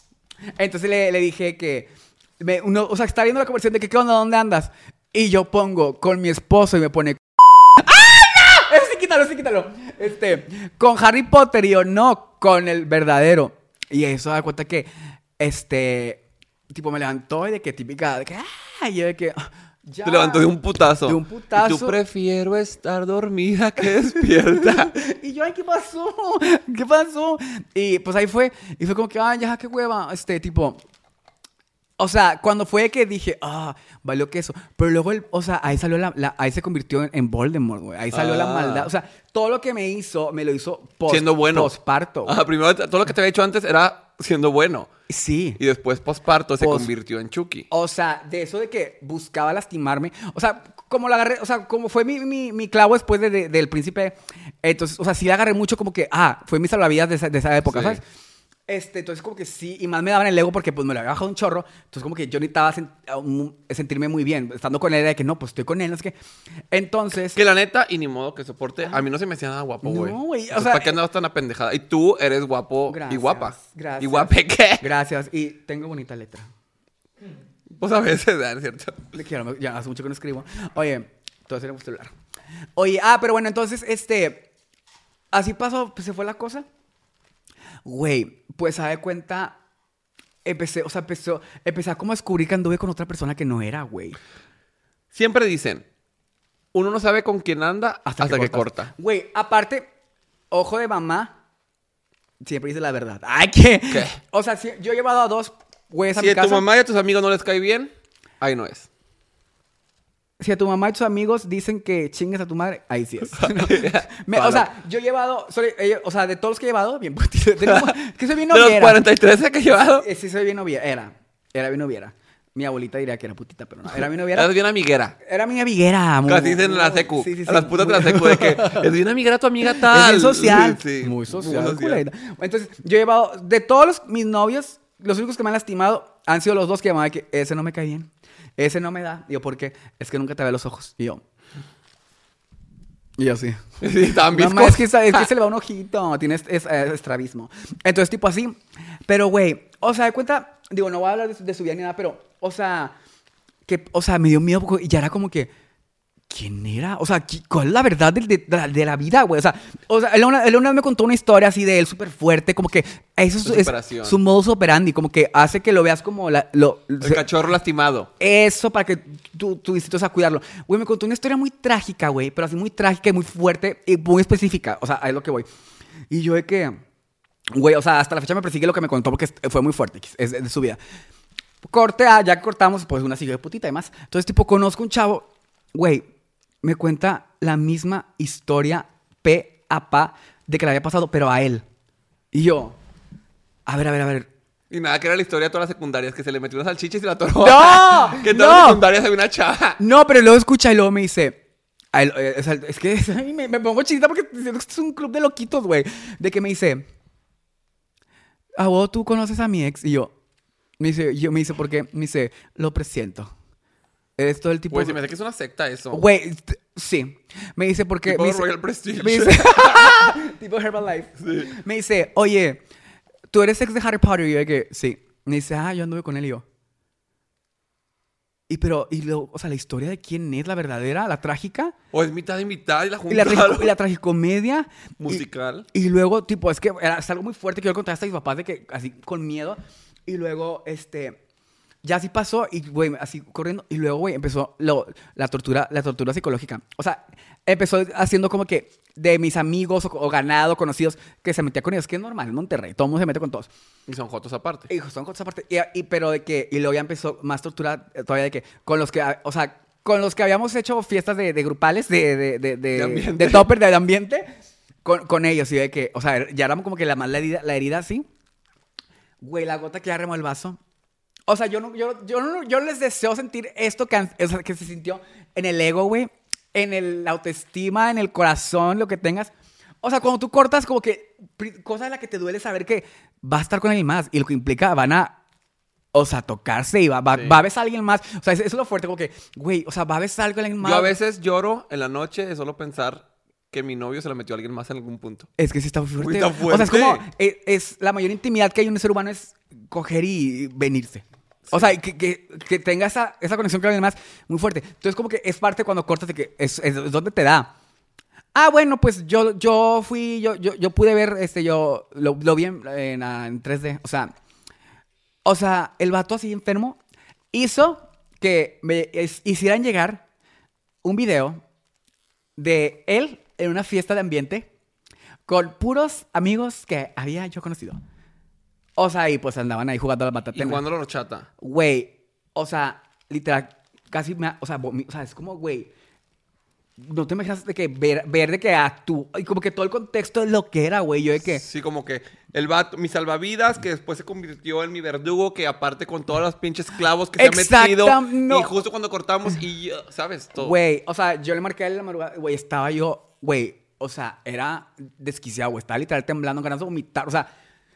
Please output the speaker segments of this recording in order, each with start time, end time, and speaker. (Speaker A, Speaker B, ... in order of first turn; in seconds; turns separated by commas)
Speaker A: 0.6-20.5, Speaker B: 20.1-24.9, Speaker A: 21.0-22.0, Speaker A: 24.7-30.8, Speaker A: 32.0-42.4, Speaker B: 38.1-38.9, Speaker B: 41.1-41.7, Speaker B: 42.2-44.9, Speaker A: 45.1-45.6, Speaker B: 45.6-47.7, Speaker A: 46.6-46.9, Speaker A: 47.7-58.0, Speaker B: 57.7-58.0, Speaker A: 58.7-66.2, Speaker A: 66.7-67.4, Speaker B: 67.3-74.8, Speaker A: 69.8-71.0, Speaker A: 72.9-76.5, Speaker B: 77.7-79.0, Speaker A: 79.1-82.1, Speaker A: 82.8-84.5, Speaker A: 85.3-86.7, Speaker A: 87.8-89.6, Speaker A: 90.5-94.2, Speaker B: 95.1-95.9, Speaker B: 96.7-98.9, Speaker A: 98.1-99.9, Speaker A: 100.5-101.3, Speaker A: 102.4-106.7, Speaker B: 103.9-104.2, Speaker B: 106.1-108.9, Speaker A: 110.4-119.0, Speaker B: 113.3-114.7, Speaker B: 117.6-118.0, Speaker B: 118.5-120.1, Speaker A: 120.0-124.5, Speaker B: 124.0-125.2, Speaker A: 125.2-128.9, Speaker B: 126.3-132.0, Speaker A: 129.7-141.2, Speaker A: 143.2-153.0, Speaker B: 143.8-145.3, Speaker A: 153.7-155.5, Speaker A: 156.3-167.3, Speaker B: 163.4-164.2, Speaker B: 167.0-168.1, Speaker A: 168.2-175.5, Speaker A: 176.1-176.8, Speaker A: 177.5-180.8, Speaker A: 181.7-186.1, Speaker A: 186.6-191.6, Speaker A: 192.3-192.8, Speaker A: 193.7-194.3, Speaker B: 194.7-199.8, Speaker A: 197.4-198.8, Speaker A: 199.8-201.4, Speaker A: 201.9-206.9, Speaker A: 208.6-210.1, Speaker A: 210.8-213.3, Speaker A: 214.2-215.0, Speaker B: 214.7-216.0, Speaker A: 215.9-222.6, Speaker B: 218.1-220.2, Speaker B: 221.2-221.5, Speaker A: 223.3-226.4, Speaker A: 228.5-231.7, Speaker B: 231.9-233.8, Speaker A: 233.1-241.2, Speaker B: 235.0-235.7, Speaker A: 241.8-253.5, Speaker B: 253.9-254.7, Speaker A: 254.7-264.3, Speaker B: 262.8-263.5, Speaker A: 264.9-268.1, Speaker A: 269.2-270.6, Speaker A: 271.3-279.3, Speaker A: 279.8-285.2, Speaker A: 285.9-290.9, Speaker B: 287.1-287.4, Speaker B: 290.6-295.3, Speaker A: 295.4-307.5, Speaker B: 296.0-297.0, Speaker B: 301.5-301.7, Speaker A: 308.4-314.1, Speaker A: 315.2-316.8, Speaker A: 317.3-320.0, Speaker A: 320.8-321.4, Speaker A: 322.4-324.5, Speaker A: 325.3-327.8, Speaker A: 328.8-330.6, Speaker B: 330.3-331.3, Speaker A: 331.4-335.7, Speaker A: 336.8-341.4, Speaker B: 341.2-350.6, Speaker A: 347.2-348.6, Speaker A: 350.4-357.3